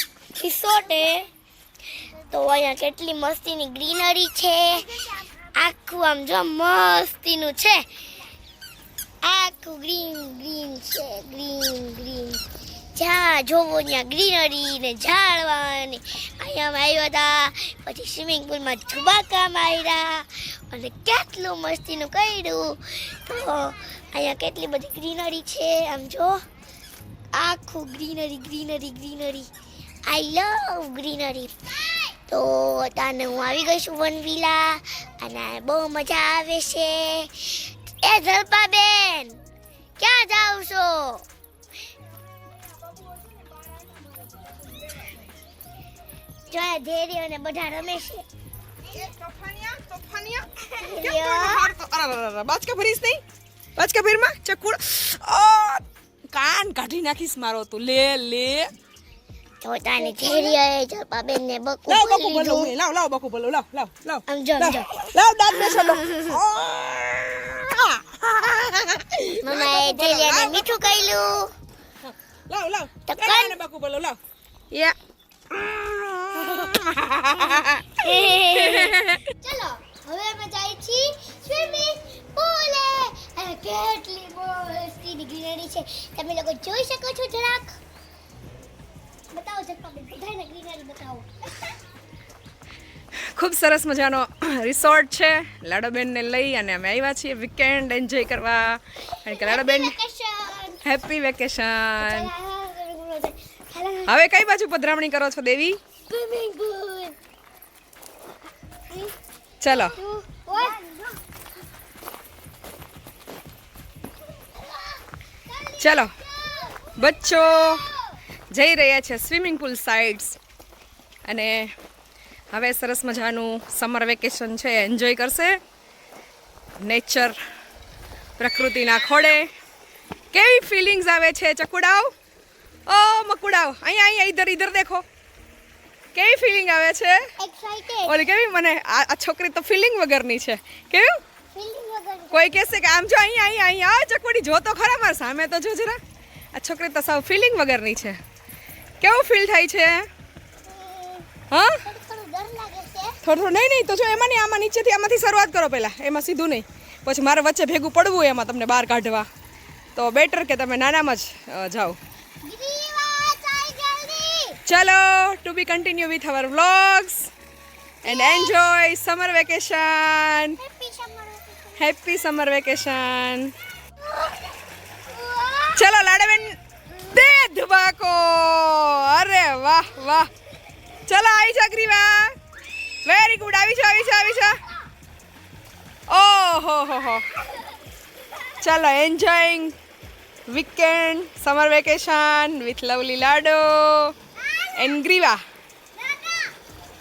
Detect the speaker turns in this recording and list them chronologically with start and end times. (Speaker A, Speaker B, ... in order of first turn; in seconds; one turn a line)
Speaker A: 0.3-1.3
Speaker A: 2.3-7.9
Speaker A: 9.2-12.4
Speaker A: 12.9-26.4
Speaker A: 27.3-29.5
Speaker A: 30.1-39.4
Speaker A: 40.0-41.2
Speaker A: 46.5-48.3
Speaker B: 48.9-53.2
Speaker A: 50.8-51.7
Speaker B: 53.8-58.7
Speaker A: 59.6-62.7
Speaker B: 60.0-60.6
Speaker B: 61.9-70.9
Speaker A: 64.3-64.9
Speaker A: 65.5-66.4
Speaker A: 69.4-71.5
Speaker B: 72.5-74.2
Speaker A: 73.1-73.6
Speaker B: 75.5-79.2
Speaker A: 78.0-87.8
Speaker A: 89.3-91.7
Speaker B: 93.3-100.0
Speaker A: 99.2-100.8
Speaker B: 100.8-102.3
Speaker A: 102.0-104.1
Speaker B: 104.1-105.8
Speaker A: 106.1-107.2
Speaker B: 109.6-110.0
Speaker A: 109.7-111.2
Speaker A: 115.5-116.9
Speaker B: 115.8-116.1
Speaker B: 117.0-117.9
Speaker B: 118.5-120.4
Speaker B: 121.3-121.7
Speaker B: 122.5-125.6
Speaker B: 126.8-127.4
Speaker B: 128.4-129.5
Speaker B: 130.3-132.1
Speaker B: 132.9-135.0
Speaker B: 136.2-137.2
Speaker A: 137.4-138.2
Speaker B: 138.1-141.2
Speaker A: 141.5-142.6
Speaker B: 142.3-146.0
Speaker B: 146.6-148.2
Speaker B: 149.0-150.1
Speaker A: 150.7-151.3
Speaker B: 151.5-151.8
Speaker A: 151.8-153.2
Speaker B: 153.2-159.3
Speaker B: 160.0-162.0
Speaker A: 162.4-164.6
Speaker B: 164.7-167.3
Speaker B: 168.0-170.6
Speaker A: 168.1-168.6
Speaker A: 170.6-171.8
Speaker B: 171.8-173.5
Speaker A: 174.0-174.4
Speaker A: 175.1-175.8
Speaker B: 175.8-180.3
Speaker B: 181.1-182.3
Speaker B: 183.1-184.6
Speaker B: 186.1-187.3
Speaker B: 188.6-189.7
Speaker B: 190.5-194.1
Speaker A: 194.4-194.7
Speaker B: 194.7-195.4
Speaker A: 196.0-196.5